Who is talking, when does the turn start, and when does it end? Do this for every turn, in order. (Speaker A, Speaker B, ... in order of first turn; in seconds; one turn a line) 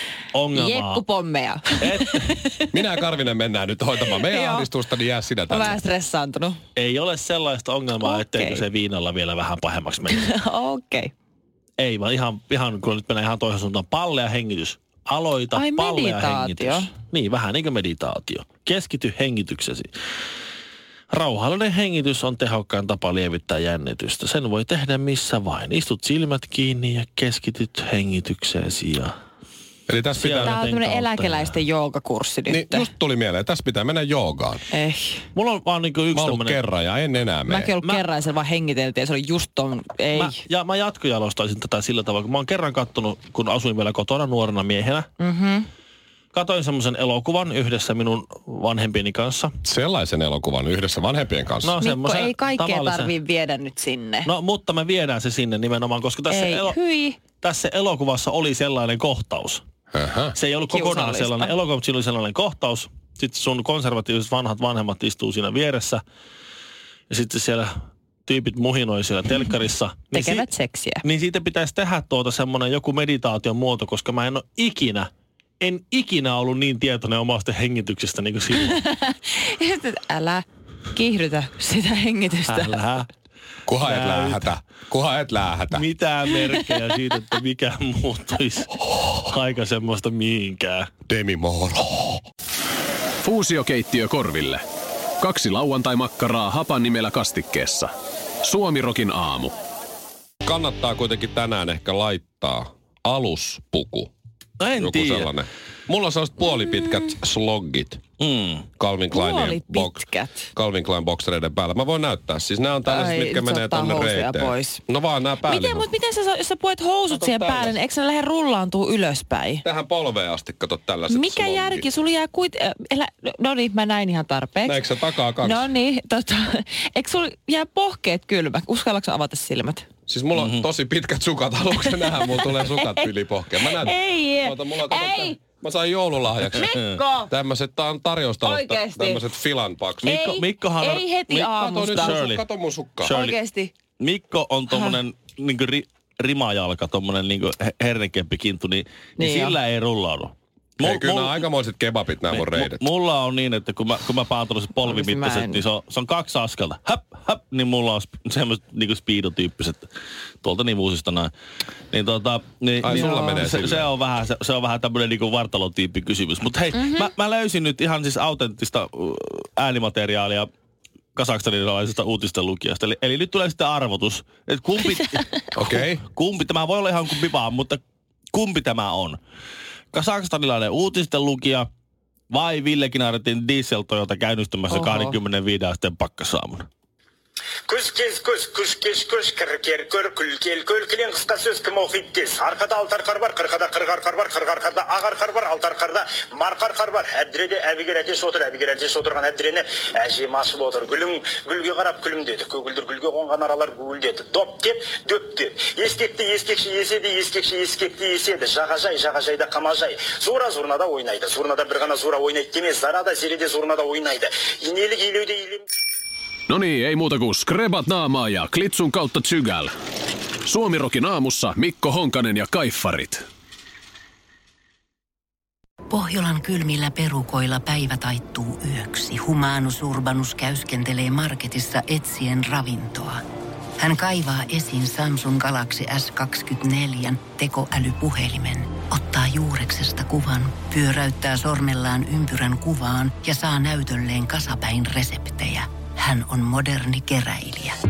Speaker A: 0.3-1.0
Speaker B: 0.5-2.7
Speaker A: 1.8-2.3
Speaker C: 2.7-5.8
Speaker B: 4.2-4.7
Speaker B: 5.5-6.6
Speaker A: 6.8-10.3
Speaker B: 8.0-8.6
Speaker B: 10.1-11.1
Speaker A: 11.8-19.9
Speaker B: 15.5-16.9
Speaker A: 21.1-29.1
Speaker C: 29.9-30.6
Speaker A: 30.1-31.5
Speaker B: 30.4-32.9
Speaker C: 32.5-34.6
Speaker B: 34.7-35.2
Speaker A: 35.3-36.6
Speaker C: 36.1-37.7
Speaker B: 37.5-40.4
Speaker A: 40.1-45.1
Speaker B: 45.2-45.7
Speaker A: 46.3-49.5
Speaker C: 49.6-51.7
Speaker A: 51.6-53.1
Speaker B: 51.8-54.3
Speaker A: 54.2-56.8
Speaker B: 56.3-57.2
Speaker A: 57.4-59.6
Speaker C: 59.9-60.3
Speaker A: 60.3-66.0
Speaker B: 60.7-61.5
Speaker A: 67.1-67.7
Speaker A: 68.3-70.5
Speaker B: 70.1-71.0
Speaker A: 71.0-75.1
Speaker A: 75.6-78.8
Speaker B: 78.5-82.8
Speaker A: 82.5-83.1
Speaker C: 83.7-85.8
Speaker A: 83.8-84.5
Speaker A: 85.7-90.9
Speaker C: 91.1-92.2
Speaker D: 93.2-94.6
Speaker D: 95.2-97.9
Speaker D: 98.4-99.5
Speaker C: 100.4-104.1
Speaker A: 104.6-105.3
Speaker C: 104.8-108.0
Speaker A: 108.2-108.7
Speaker C: 108.8-115.9
Speaker B: 109.1-110.5
Speaker B: 112.8-114.8
Speaker B: 115.4-119.6
Speaker C: 119.6-121.9
Speaker B: 121.1-124.8
Speaker C: 124.6-125.7
Speaker B: 125.4-129.8
Speaker C: 130.1-136.7
Speaker A: 130.4-130.6
Speaker B: 131.8-135.4
Speaker B: 136.5-137.3
Speaker C: 137.3-140.2
Speaker B: 138.4-139.2
Speaker A: 140.0-142.4
Speaker B: 140.0-142.2
Speaker C: 141.4-143.1
Speaker A: 143.0-143.3
Speaker B: 143.1-143.7
Speaker A: 144.0-151.4
Speaker B: 144.7-145.0
Speaker B: 149.2-149.6
Speaker C: 150.8-152.8
Speaker A: 152.3-159.9
Speaker B: 154.8-155.6
Speaker A: 160.4-161.3
Speaker A: 161.9-170.5
Speaker C: 162.8-163.9
Speaker B: 166.8-167.1
Speaker A: 171.1-177.8
Speaker C: 175.5-176.0
Speaker A: 178.3-179.2
Speaker A: 179.9-181.7
Speaker A: 182.3-186.7
Speaker B: 184.7-185.2
Speaker E: 187.7-215.6
Speaker D: 216.5-219.7
Speaker D: 220.4-223.2
Speaker F: 225.9-233.2
Speaker F: 233.8-247.8